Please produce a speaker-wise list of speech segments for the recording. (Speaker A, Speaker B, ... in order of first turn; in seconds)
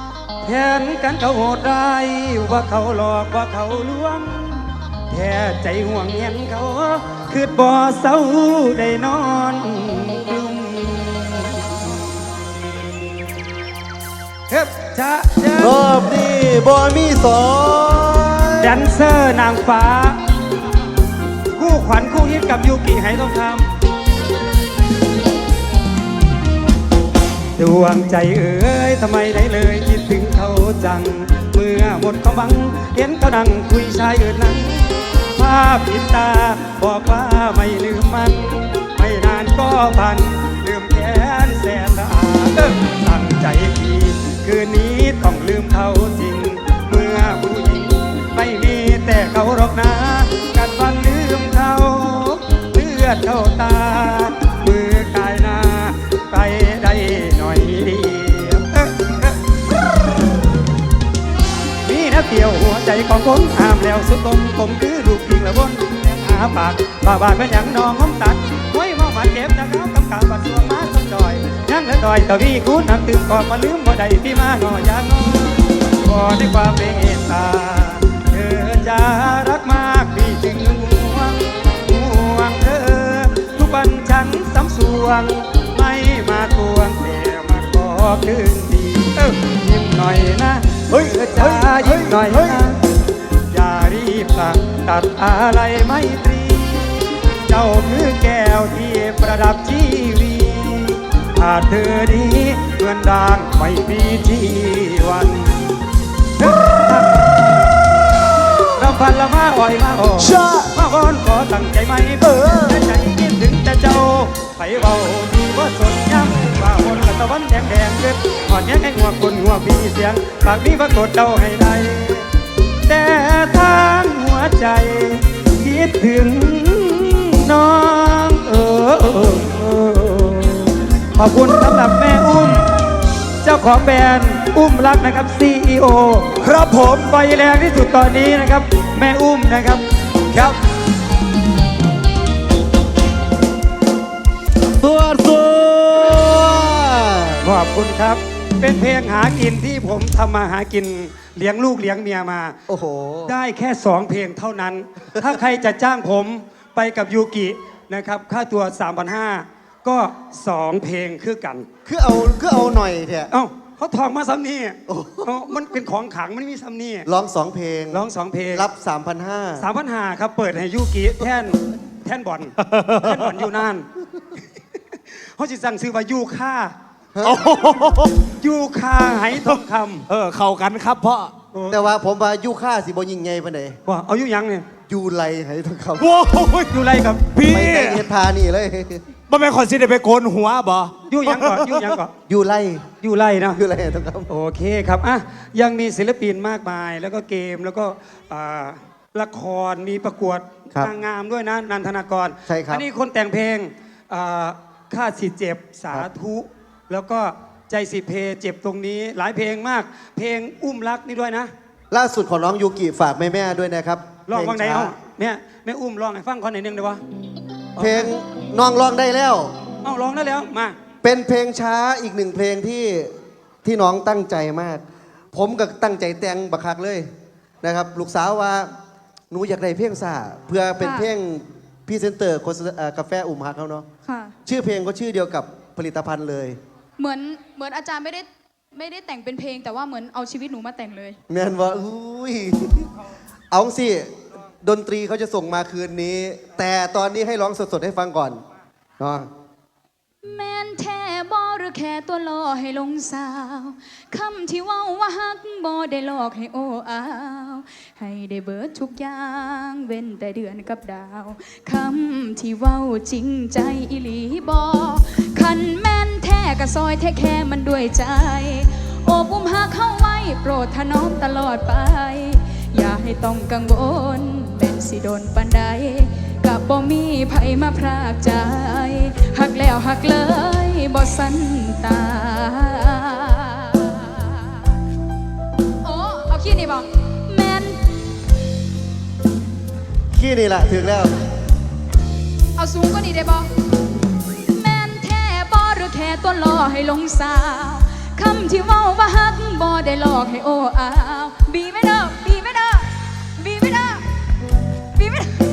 Speaker A: 0.4-12.1, 14.5-15.8, 18.6-20.2, 21.5-23.8, 27.6-59.4, 61.8-92.8, 93.5-105.7, 106.4-107.5, 108.7-122.3, 122.9-132.7, 133.4-140.6, 147.4-152.6, 153.3-161.7, 163.3-167.1, 167.9-168.7, 169.6-173.9, 174.9-176.7, 178.4-180.1, 181.5-181.8, 183.8-184.7, 186.7-187.3, 191.1-192.1, 193.0-193.6, 194.3-211.5, 214.3-217.0, 217.8-218.1, 219.8-220.8
Speaker B: 15.6-18.8, 144.8-147.4, 152.7-153.3, 161.8-163.3, 164.9-165.3, 167.1-169.7, 181.7-183.8, 184.9-186.1, 187.4-189.0, 192.3-192.9, 193.6-194.3, 202.5-202.8, 211.9-214.9, 217.8-219.6, 221.0-227.1, 227.6-228.7, 229.3-233.8, 234.4-236.6, 241.3-242.9, 243.5-248.4, 249.0-249.3, 290.1-291.2
Speaker C: 90.9-92.7, 110.2-110.7, 112.3-112.7, 172.6-173.3, 177.2-178.2, 179.3-181.3, 186.0-186.8, 187.3-188.0, 189.3-191.9
Speaker D: 230.8-231.1, 234.0-234.3, 237.0-241.2, 250.2-284.6, 285.8-287.8, 292.6-293.5, 294.4-304.0, 304.9-305.4